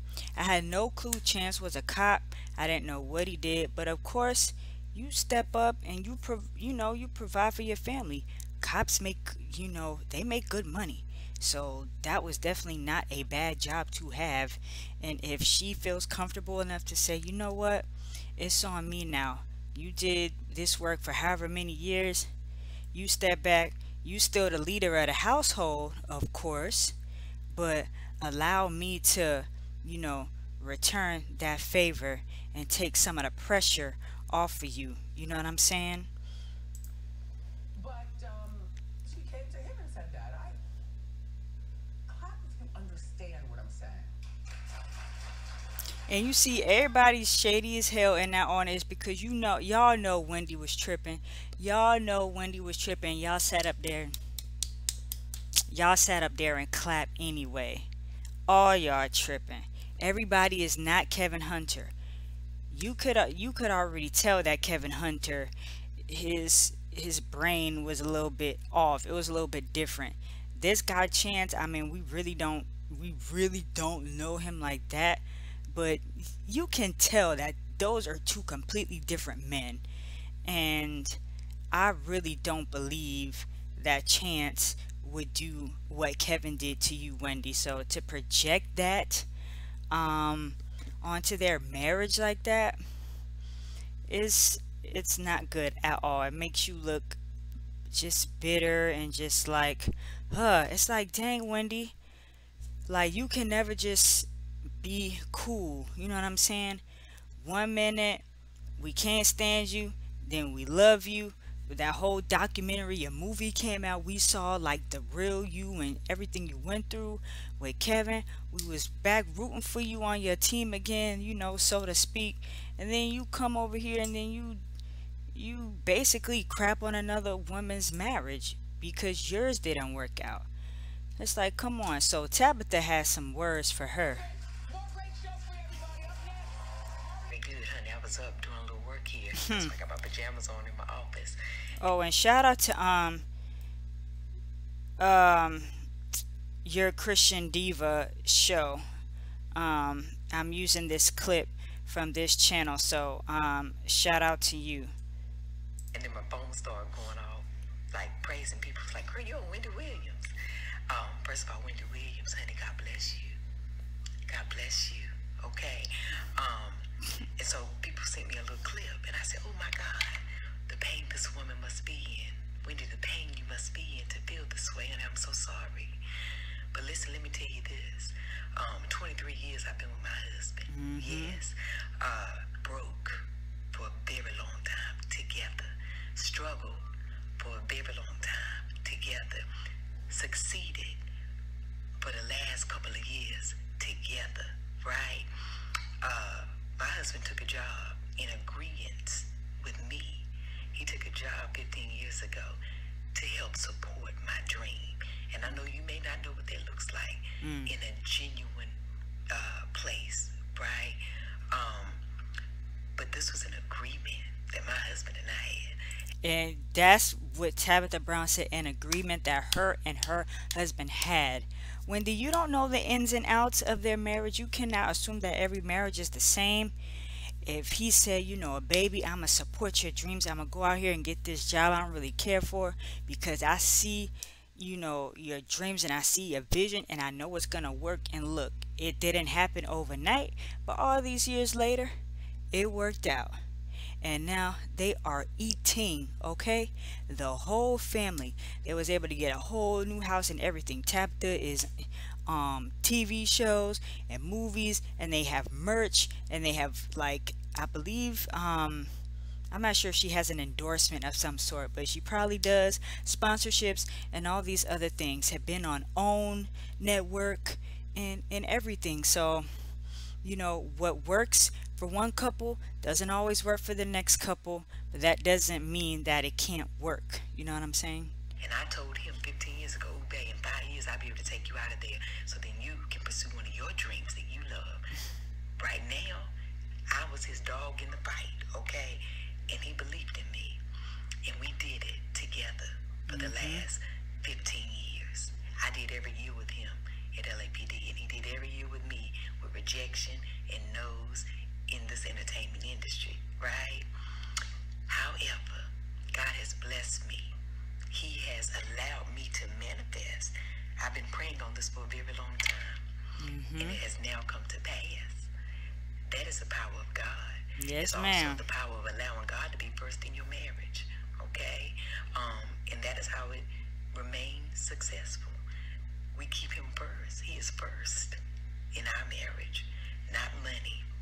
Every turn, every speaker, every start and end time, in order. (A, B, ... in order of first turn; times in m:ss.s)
0:00.4-0:22.3 A
0:22.9-0:26.9 A
0:27.5-0:36.1 A
0:37.8-0:40.6 B
0:42.1-0:44.1 B
0:46.1-0:54.1 A
0:55.7-0:57.9 A
0:58.5-1:01.9 A
1:02.7-1:05.5 A
1:06.1-1:19.8 A
1:20.4-1:21.2 A
1:21.7-1:29.3 A
1:29.9-1:32.8 A
1:34.1-1:37.2 A
1:37.9-1:41.9 A
1:42.9-1:44.3 A
1:44.8-1:46.8 A
1:47.4-1:48.2 A
1:48.8-2:04.6 A
2:05.3-2:10.5 A
2:11.2-2:14.3 A
2:14.1-2:17.3 B
2:17.3-2:21.4 C
2:19.4-2:19.7 A
2:21.8-2:23.2 A
2:25.0-2:25.7 A
2:26.6-2:28.8 A
2:29.5-2:34.9 A
2:35.9-2:40.3 C
2:40.9-2:43.4 C
2:44.3-2:46.8 C
2:47.4-2:56.0 C
2:56.7-3:06.8 C
3:00.7-3:01.4 A
3:07.4-3:09.4 C
3:10.1-3:11.0 C
3:12.0-3:15.3 C
3:16.0-3:22.6 C
3:23.1-3:28.8 C
3:27.4-3:27.7 A
3:29.3-3:31.0 C
3:31.5-3:32.0 C
3:33.0-3:35.8 C
3:36.2-3:46.7 A
3:47.4-4:01.9 A
4:02.5-4:03.4 A
4:04.0-4:18.9 A
4:19.5-4:29.5 A
4:30.2-4:38.1 A
4:38.4-4:44.8 C
4:45.6-4:46.3 C
4:46.9-4:50.6 C
4:51.2-5:03.9 C
4:53.1-4:53.6 A
5:04.9-5:07.3 C
5:07.9-5:12.8 C
5:13.2-5:13.8 A
5:13.6-5:15.3 C
5:16.1-5:25.4 C
5:17.6-5:18.4 A
5:26.1-5:28.2 C
5:28.7-5:30.8 C